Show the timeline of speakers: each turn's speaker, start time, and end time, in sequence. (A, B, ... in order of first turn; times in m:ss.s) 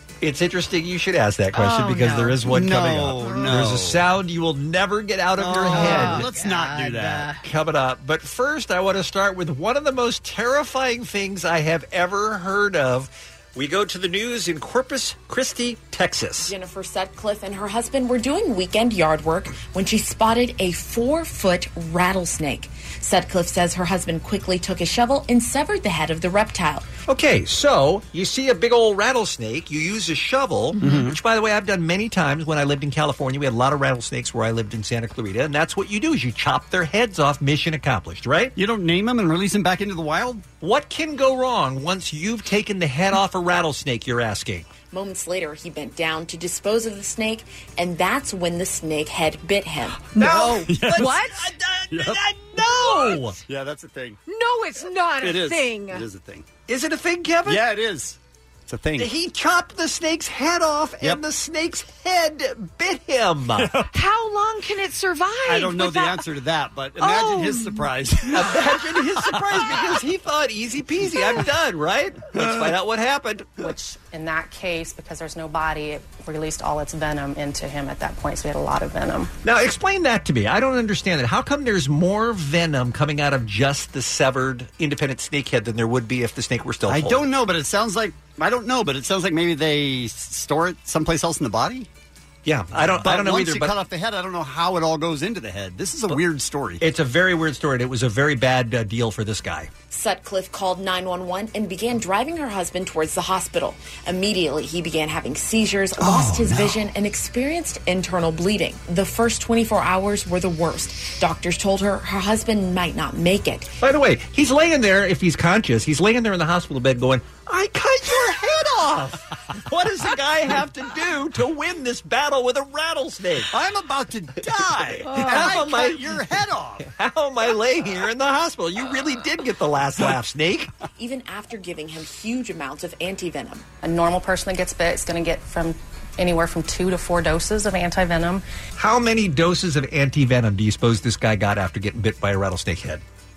0:00.2-0:06.3 A
0:01.5-0:02.4 B
0:02.4-0:04.0 C
0:03.2-0:03.5 B
0:05.4-0:07.3 C
0:05.7-0:07.4 B
0:07.4-0:16.5 A
0:16.4-0:26.9 D
0:27.1-0:38.5 A
0:30.8-0:31.2 C
0:38.6-0:40.4 C
0:40.6-0:44.7 A
0:44.9-0:50.1 D
0:50.1-0:51.5 B
0:50.2-0:53.4 A
0:50.2-0:51.2 C
0:51.9-0:52.2 C
0:52.8-0:53.2 B
0:52.8-0:54.2 C
0:54.3-0:56.0 B
0:55.2-0:56.4 C
0:56.7-0:57.6 A
0:57.4-0:59.1 C
0:59.0-1:03.7 A
1:03.6-1:03.9 C
1:03.9-1:06.2 B
1:05.4-1:10.0 C
1:07.0-1:07.9 B
1:08.3-1:13.6 A
1:12.3-1:12.7 C
1:13.6-1:19.3 E
1:19.4-1:27.2 A
1:26.9-1:31.9 C
1:32.4-1:33.7 A
1:33.0-1:36.8 C
1:36.8-1:39.7 A
1:39.9-1:53.7 D
1:46.0-1:46.9 C
1:53.8-2:03.5 A
2:03.5-2:06.9 C
2:04.7-2:06.2 A
2:05.0-2:05.6 B
2:06.8-2:10.7 A
2:11.0-2:13.7 D
2:13.8-2:18.4 E
2:18.8-2:23.0 A